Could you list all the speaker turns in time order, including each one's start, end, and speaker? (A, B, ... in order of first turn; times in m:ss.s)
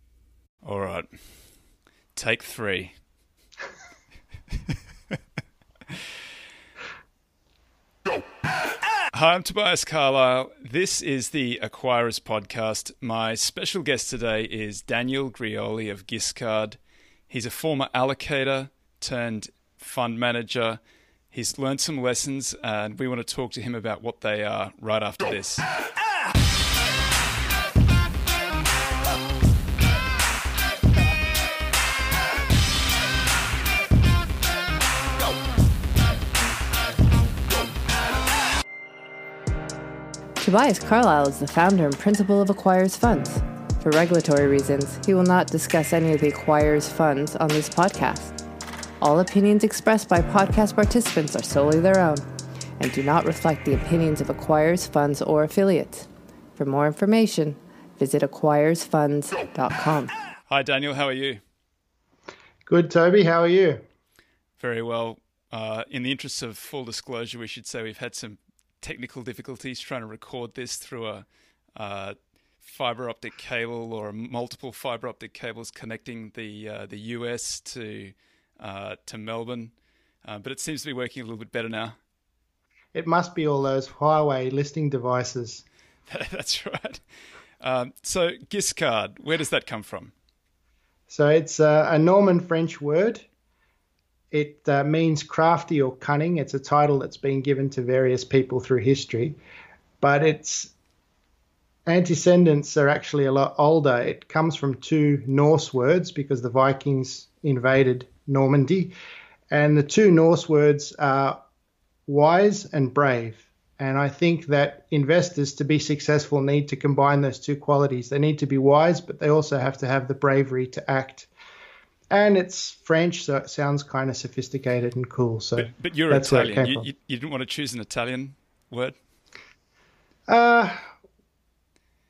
0:00.6-0:01.1 A
0:02.1-0:03.0 A
0:09.1-0:16.8 A
0:17.3-0:20.8 A
0:21.3-0:25.6 A
0:40.4-0:48.3 B
0:49.0-0:52.2 B
0:52.8-1:00.1 B
1:00.5-1:01.4 A
1:02.6-1:03.8 C
1:04.6-1:11.2 A
1:11.8-1:19.7 A
1:20.2-1:22.0 A
1:22.9-1:25.6 C
1:26.1-1:27.0 A
1:27.6-1:30.1 A
1:31.1-1:33.2 C
1:34.3-1:39.4 C
1:40.0-1:40.7 C
1:41.8-1:48.9 C
1:49.5-1:51.4 C
1:52.1-2:01.3 C
2:02.1-2:06.9 C
2:05.6-2:09.0 A
2:10.3-2:10.8 C